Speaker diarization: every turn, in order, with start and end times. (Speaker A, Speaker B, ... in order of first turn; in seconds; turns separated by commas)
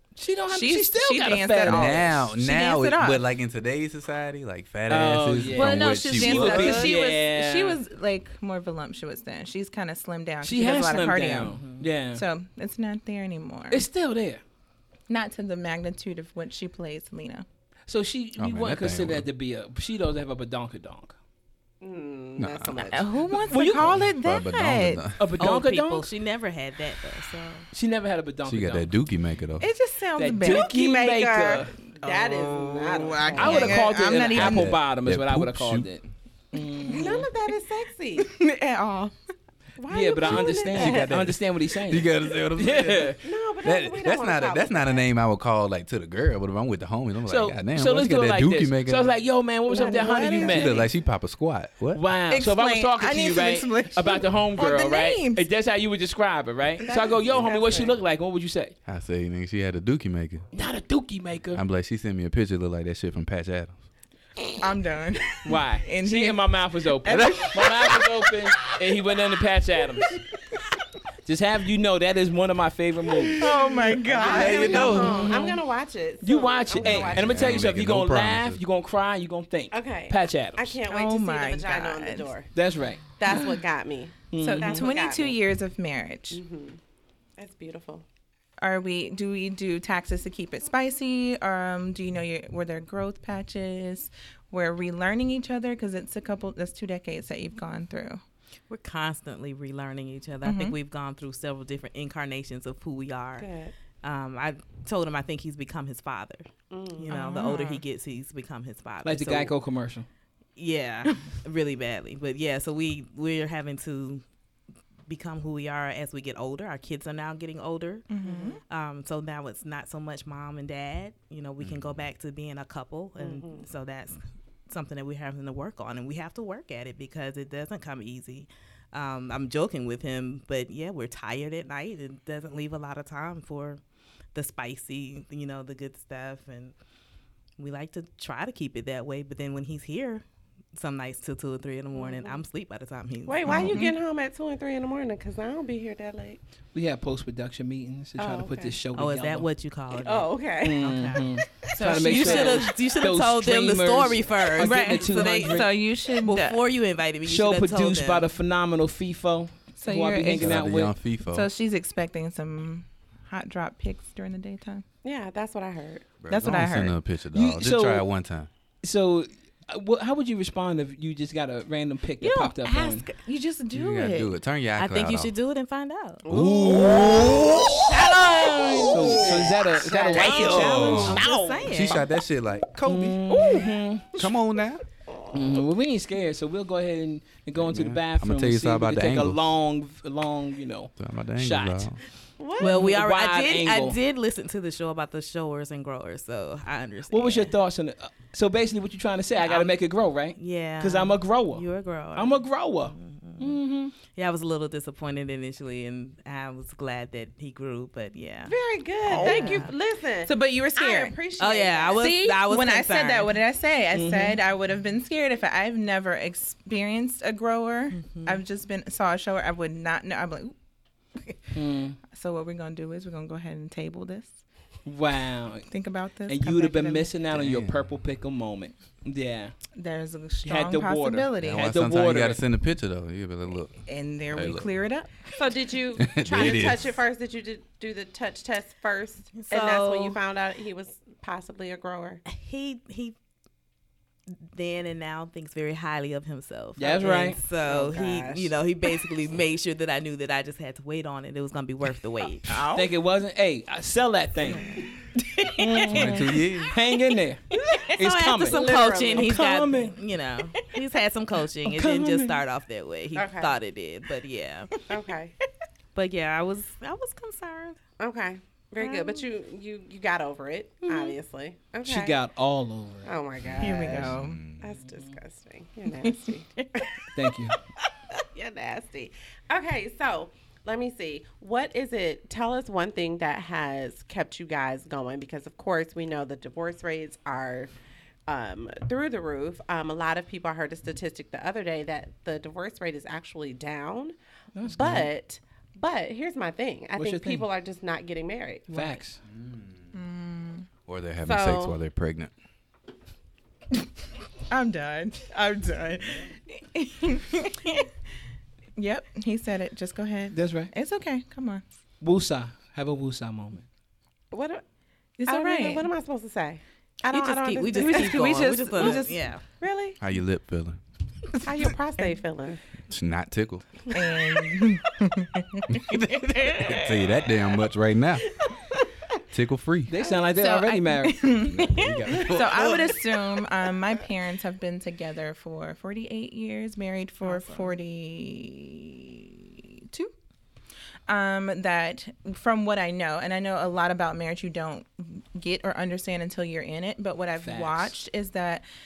Speaker A: 0.2-2.1, Speaker B: 0.5-3.3, Speaker C: 1.7-7.0, Speaker A: 4.9-7.8, Speaker B: 5.5-13.8, Speaker A: 10.4-12.2, Speaker A: 13.7-14.4, Speaker B: 15.1-17.5, Speaker A: 17.9-21.2, Speaker C: 18.4-19.3, Speaker D: 21.8-23.1, Speaker C: 22.4-25.2, Speaker B: 22.9-25.1, Speaker A: 23.5-24.0, Speaker A: 25.2-26.1, Speaker E: 25.4-27.7, Speaker A: 27.7-28.9, Speaker C: 28.4-29.7, Speaker B: 29.6-34.8, Speaker A: 30.2-31.8, Speaker D: 32.0-33.8, Speaker C: 33.4-35.9, Speaker A: 33.4-37.3, Speaker B: 36.9-37.3, Speaker D: 36.9-38.3, Speaker B: 38.2-39.2, Speaker D: 39.8-41.1, Speaker A: 39.9-43.2, Speaker C: 40.2-49.1, Speaker D: 43.2-45.0, Speaker A: 47.3-50.8, Speaker B: 49.7-50.9, Speaker D: 49.7-50.6, Speaker C: 50.4-52.0, Speaker A: 51.9-58.8, Speaker B: 52.3-55.5, Speaker D: 56.9-58.0, Speaker C: 58.9-60.5, Speaker A: 60.5-61.6, Speaker C: 61.5-63.8, Speaker B: 64.6-66.5, Speaker A: 65.4-70.2, Speaker B: 67.0-68.0, Speaker C: 67.1-68.0, Speaker A: 71.2-73.5, Speaker B: 73.3-75.1, Speaker D: 74.1-77.7, Speaker C: 74.2-75.3, Speaker A: 74.6-75.6, Speaker A: 76.2-80.8, Speaker C: 76.8-78.6, Speaker D: 79.7-82.5, Speaker B: 80.9-82.3, Speaker A: 82.5-83.6, Speaker D: 83.2-85.4, Speaker A: 84.3-84.9, Speaker B: 84.4-86.4, Speaker D: 86.3-86.8, Speaker D: 87.4-88.0, Speaker B: 88.6-98.2, Speaker E: 98.7-103.5, Speaker B: 100.4-100.8, Speaker D: 103.4-103.7, Speaker E: 104.0-109.5, Speaker D: 106.7-107.1, Speaker B: 107.1-107.8, Speaker A: 109.0-110.1, Speaker E: 110.6-114.2, Speaker E: 115.1-133.8, Speaker B: 118.1-118.6, Speaker D: 118.2-118.5, Speaker C: 121.6-122.0, Speaker D: 123.2-123.7, Speaker E: 134.3-136.7, Speaker E: 137.6-140.2, Speaker E: 140.8-143.9, Speaker D: 141.9-142.4, Speaker D: 143.3-146.4, Speaker B: 143.5-143.9, Speaker A: 146.7-149.5, Speaker D: 148.2-148.8, Speaker E: 148.9-158.3, Speaker D: 149.9-150.8, Speaker A: 150.6-155.7, Speaker B: 151.7-152.7, Speaker B: 154.6-156.6, Speaker A: 157.3-161.0, Speaker B: 159.8-160.6, Speaker C: 160.3-161.5, Speaker B: 161.3-164.8, Speaker D: 165.0-166.2, Speaker C: 166.2-168.5, Speaker B: 166.3-167.0, Speaker A: 167.3-168.1, Speaker A: 168.8-173.1, Speaker B: 172.2-174.3, Speaker C: 173.7-175.3, Speaker E: 174.8-176.2, Speaker D: 176.3-179.4, Speaker C: 176.3-184.8, Speaker A: 178.8-181.3, Speaker B: 179.9-181.0, Speaker D: 180.2-180.7, Speaker E: 180.4-182.0, Speaker D: 181.3-181.6, Speaker A: 182.8-184.2, Speaker A: 185.3-191.9, Speaker C: 187.6-189.5, Speaker C: 191.0-192.0, Speaker D: 192.4-192.9, Speaker E: 192.6-197.5, Speaker A: 192.6-194.0, Speaker A: 197.1-203.9, Speaker E: 199.4-199.7, Speaker E: 200.4-208.6, Speaker D: 208.5-212.2, Speaker B: 209.1-209.7, Speaker E: 209.1-209.7, Speaker B: 210.2-211.2, Speaker E: 211.4-213.3, Speaker B: 211.9-220.6, Speaker A: 213.9-214.4, Speaker E: 218.0-218.4, Speaker A: 221.6-222.0, Speaker B: 222.1-224.4, Speaker A: 224.9-225.7, Speaker B: 225.7-227.2, Speaker A: 226.3-229.6, Speaker C: 227.3-227.9, Speaker B: 229.8-231.7, Speaker A: 230.4-232.4, Speaker C: 231.4-234.7, Speaker B: 233.9-235.3, Speaker D: 235.4-242.2, Speaker C: 236.0-237.0, Speaker E: 239.3-240.2, Speaker E: 242.3-243.2, Speaker E: 244.5-252.6, Speaker A: 246.8-247.4, Speaker D: 247.6-248.6, Speaker B: 252.5-252.9, Speaker A: 252.7-254.7, Speaker B: 255.2-256.0, Speaker A: 255.6-260.0, Speaker C: 255.9-256.8, Speaker E: 257.8-264.8, Speaker D: 258.4-259.3, Speaker A: 261.6-262.4, Speaker D: 263.1-263.6, Speaker D: 264.9-265.4, Speaker E: 265.9-267.8, Speaker D: 268.0-272.2, Speaker E: 268.8-269.2, Speaker A: 271.9-273.1, Speaker D: 273.1-277.1, Speaker C: 273.4-274.6, Speaker B: 273.6-274.5, Speaker A: 274.8-275.1, Speaker B: 276.0-276.7, Speaker A: 277.1-277.6, Speaker D: 278.2-287.7, Speaker D: 288.3-294.1, Speaker A: 294.6-295.1, Speaker D: 294.7-299.0, Speaker A: 297.0-297.5, Speaker A: 298.7-299.2, Speaker C: 299.3-299.8, Speaker B: 299.9-300.7, Speaker C: 300.9-302.3, Speaker D: 301.2-301.8, Speaker B: 304.5-307.9, Speaker B: 308.8-311.6, Speaker A: 310.3-310.7, Speaker A: 312.0-313.6, Speaker D: 314.3-314.6, Speaker B: 315.2-315.9, Speaker D: 315.3-319.1, Speaker E: 317.1-319.4, Speaker B: 317.8-319.2, Speaker D: 319.6-320.0, Speaker C: 320.0-320.8, Speaker D: 321.4-322.6, Speaker C: 322.9-323.9, Speaker B: 323.9-326.8, Speaker C: 325.7-328.4, Speaker C: 329.3-330.0, Speaker A: 329.9-331.5, Speaker B: 330.3-340.1, Speaker C: 331.5-332.9, Speaker E: 337.2-337.7, Speaker B: 341.1-348.6, Speaker A: 347.4-348.0